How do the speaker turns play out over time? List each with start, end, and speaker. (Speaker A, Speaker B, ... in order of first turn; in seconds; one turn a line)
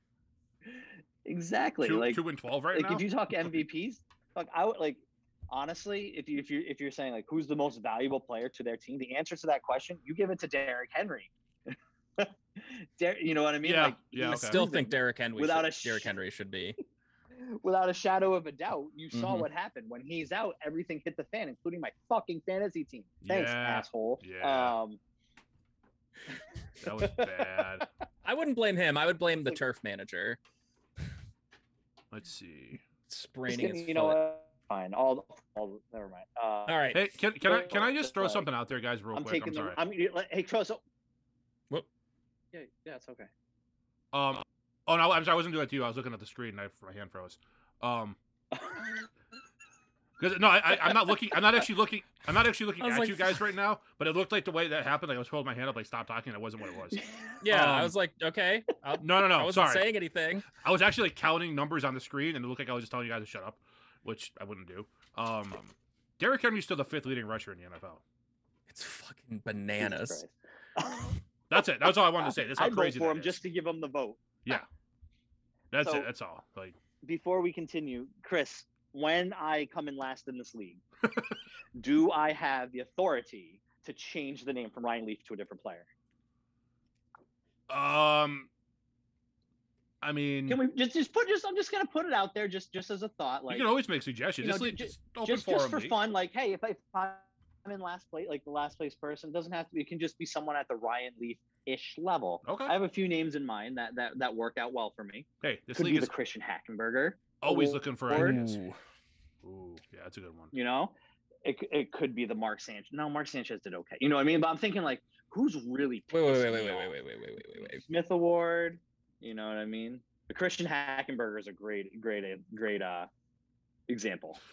Speaker A: 0.7-2.2
Speaker B: 1.8-3.0
Speaker A: 2.7-11.3
Speaker A: 12.2-16.1
Speaker B: 13.6-14.6
Speaker C: 14.3-16.8
Speaker A: 17.4-25.0
Speaker C: 19.1-19.4
Speaker B: 23.2-24.8
Speaker B: 26.8-27.9
Speaker A: 26.8-27.6
Speaker C: 28.2-30.4
Speaker B: 32.1-32.8
Speaker C: 33.1-34.2
Speaker A: 33.5-38.5
Speaker C: 36.7-37.0
Speaker B: 36.9-39.8
Speaker A: 39.1-40.8
Speaker A: 42.5-43.3
Speaker B: 44.1-48.2
Speaker A: 48.5-49.1
Speaker B: 50.2-57.9
Speaker C: 52.8-53.4
Speaker A: 56.9-57.4
Speaker C: 57.4-60.5
Speaker B: 59.0-59.9
Speaker B: 60.5-68.0
Speaker C: 68.7-70.2
Speaker A: 69.8-71.2
Speaker B: 71.5-73.4
Speaker A: 72.2-74.2
Speaker B: 75.7-76.8
Speaker A: 75.8-76.1
Speaker A: 77.0-80.8
Speaker A: 81.8-85.9
Speaker B: 87.7-88.5
Speaker B: 90.0-90.6
Speaker A: 90.5-93.6
Speaker B: 93.5-96.0
Speaker A: 94.4-108.6
Speaker B: 102.4-102.7
Speaker B: 105.4-106.1
Speaker B: 107.4-108.5
Speaker C: 108.1-108.8
Speaker B: 109.4-110.5
Speaker A: 110.5-116.9
Speaker C: 116.1-117.8
Speaker A: 117.5-123.1
Speaker A: 123.9-124.4